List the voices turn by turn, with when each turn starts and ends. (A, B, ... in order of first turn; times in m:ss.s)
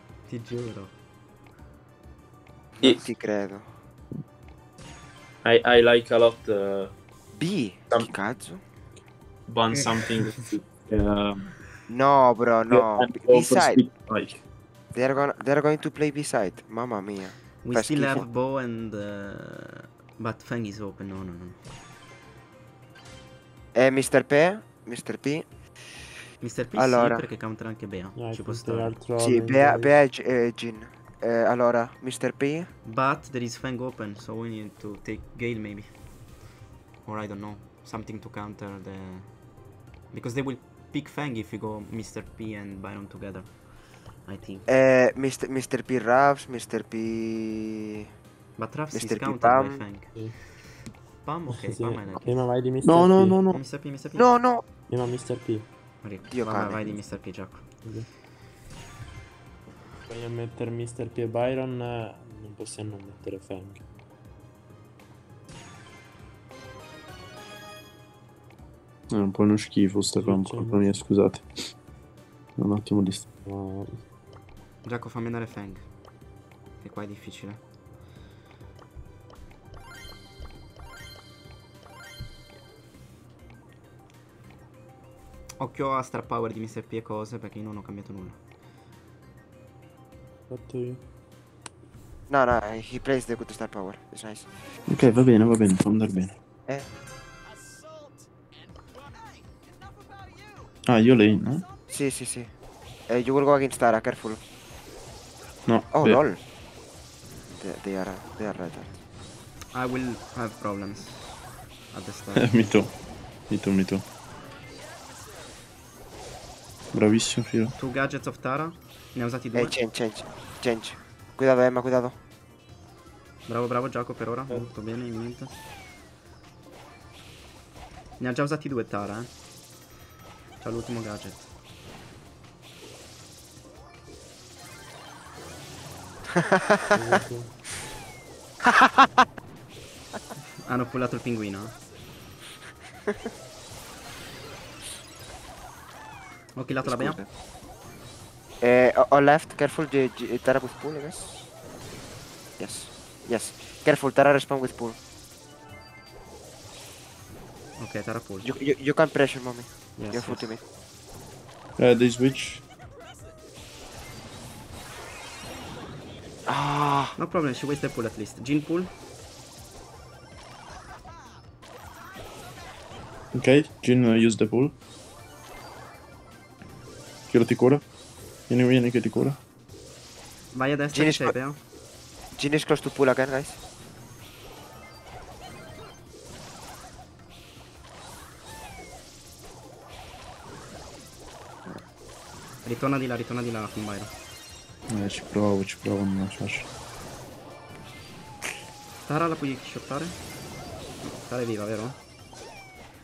0:00.3-0:00.9 A
0:02.8-0:03.6 B
0:05.4-0:06.9 C
0:07.4-0:08.6 B
0:09.5-0:11.4 C
0:09.7-0:10.6 A
0:11.9-0:13.8 B
0:12.7-0:14.4 C
0:14.9-0:18.2 B
0:17.6-0:21.6 A
0:23.7-0:25.4 B
0:26.4-0:29.0 A
0:26.7-0:27.2 B
0:28.2-0:30.0 D
0:29.2-0:32.7 B
0:32.8-0:35.9 A
0:37.0-0:39.4 A
0:40.1-0:43.6 A
0:44.2-0:44.7 A
0:44.7-0:48.0 B
0:48.6-0:50.2 A
0:48.9-0:49.8 B
0:51.2-0:52.4 A
0:51.5-0:53.4 D
0:52.8-0:53.6 C
0:53.4-0:54.2 A
0:54.1-0:54.6 B
0:54.9-0:55.7 D
0:56.0-0:57.6 A
0:56.3-0:57.0 B
1:00.1-1:03.8 D
1:09.1-1:11.5 C
1:10.2-1:10.9 D
1:12.6-1:13.2 C
1:13.4-1:14.0 D
1:14.8-1:15.8 A
1:16.8-1:17.6 A
1:25.6-1:28.4 A
1:30.5-1:31.0 D
1:32.3-1:34.5 B
1:34.9-1:36.3 C
1:40.8-1:41.6 C
1:41.9-1:42.5 B
1:43.1-1:44.4 B
1:45.6-1:46.2 C
1:45.9-1:46.4 B
1:47.5-1:48.9 B
1:49.7-1:51.4 A
1:51.9-1:52.6 A
1:52.3-1:52.9 C
1:53.5-1:54.0 C
1:56.9-1:57.7 C
1:57.8-1:59.7 A
1:59.5-2:02.2 B
2:03.5-2:05.5 A
2:08.2-2:09.3 A
2:10.6-2:11.4 A
2:16.3-2:17.2 B
2:16.9-2:17.5 D
2:18.6-2:19.2 B
2:20.6-2:21.7 A
2:26.6-2:27.2 A
2:26.8-2:27.3 B
2:28.6-2:31.5 B
2:32.6-2:35.0 B
2:37.8-2:38.6 A
2:38.4-2:40.6 B
2:40.0-2:40.5 A
2:41.8-2:42.6 C
2:46.4-2:47.2 B
2:47.2-2:48.9 A
2:53.3-2:54.7 C
2:57.3-2:57.8 C
2:58.5-2:59.4 C
3:00.5-3:01.6 A
3:00.9-3:01.4 B
3:02.3-3:03.6 B
3:12.6-3:14.1 A
3:14.9-3:16.6 C
3:19.0-3:20.1 A
3:21.2-3:22.0 A